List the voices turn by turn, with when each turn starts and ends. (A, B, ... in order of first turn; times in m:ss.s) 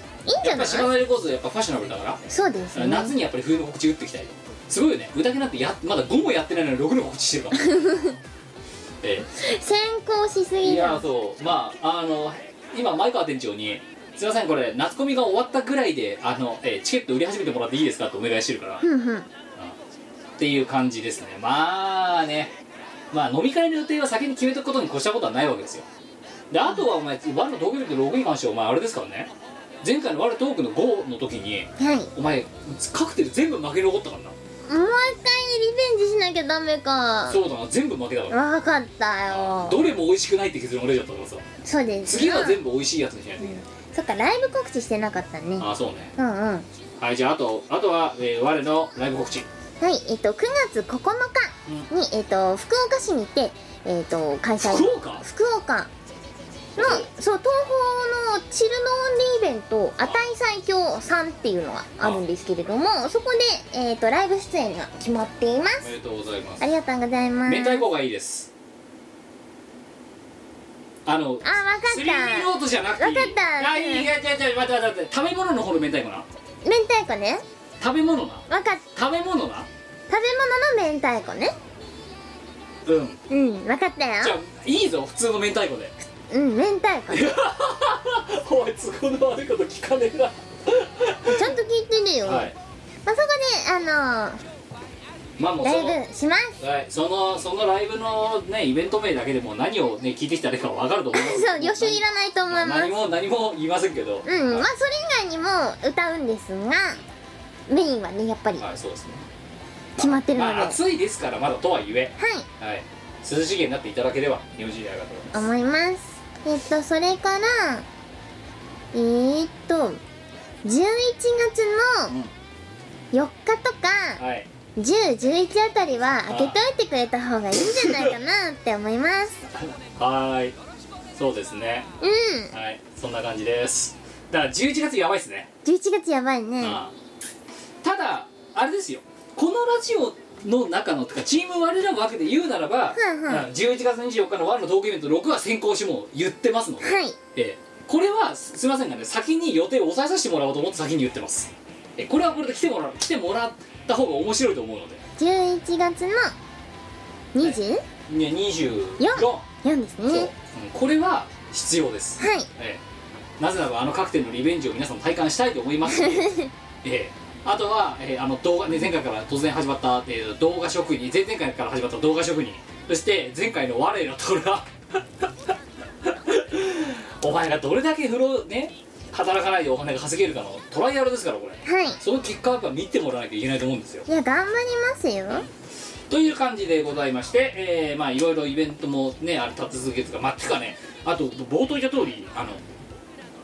0:00.2-0:00.9 A
0:00.4-0:02.2 B
0:02.3-0:03.2 A
0:02.7-0:07.8 B
0:07.6-0:08.1 A
0:09.0-0:09.3 B
0:09.4-0:11.0 A
0:10.6-0:18.8 B
0:18.8-0:19.3 A
0:20.4-0:22.5 B
0:23.1-0:25.8 B
0:26.5-0:29.3 B
0:29.8-0:34.4 B
0:31.8-0:32.1 A
0:34.6-0:37.4 A
0:37.3-0:38.4 B
0:38.3-0:39.9 A
0:39.3-0:41.4 B
0:41.6-0:42.6 A
0:42.0-0:43.6 B
0:43.4-0:46.7 A
0:45.6-0:46.1 B
0:47.0-0:49.5 B
0:49.8-0:55.9 A
0:54.6-0:55.2 B
0:56.8-0:57.1 B
0:56.8-1:05.9 A
1:05.8-1:06.6 B
1:06.6-1:07.8 A
1:07.5-1:08.5 B
1:11.0-1:16.3 B
1:11.4-1:14.1 A
1:16.6-1:17.4 A
1:17.8-1:19.7 B
1:18.5-1:18.8 A
1:20.1-1:21.5 A
1:22.8-1:23.2 B
1:23.3-1:24.4 A
1:24.2-1:25.9 B
1:26.2-1:27.4 A
1:27.1-1:31.5 B
1:31.3-1:32.5 A
1:32.2-1:32.6 B
1:33.0-1:34.4 A
1:35.4-1:36.0 B
1:35.6-1:36.6 A
1:36.6-1:44.7 B
1:41.1-1:42.9 A
1:44.2-1:47.0 A
1:47.7-1:48.6 A
1:48.6-1:49.2 B
1:50.0-1:55.4 B
1:50.0-1:50.8 A
1:52.2-1:52.5 A
1:55.3-1:57.8 A
1:58.9-2:00.0 A
2:00.6-2:02.1 A
2:03.1-2:04.2 A
2:04.2-2:04.5 B
2:04.8-2:09.3 A
2:06.3-2:06.6 B
2:07.6-2:08.1 B
2:09.5-2:10.5 B
2:11.1-2:11.9 B
2:12.0-2:12.5 A
2:12.5-2:15.5 B
2:15.6-2:16.8 A
2:16.6-2:16.9 B
2:17.8-2:35.0 B
2:22.9-2:23.5 A
2:26.8-2:27.2 A
2:35.2-2:36.3 A
2:37.3-2:37.8 A
2:37.4-2:39.4 B
2:39.0-2:40.3 A
2:40.1-2:42.8 B
2:42.2-2:42.5 A
2:43.4-2:46.3 B
2:45.9-2:46.5 A
2:46.8-2:54.7 B
2:56.0-3:04.1 B
3:01.6-3:02.0 A
3:04.1-3:05.4 A
3:06.1-3:12.6 B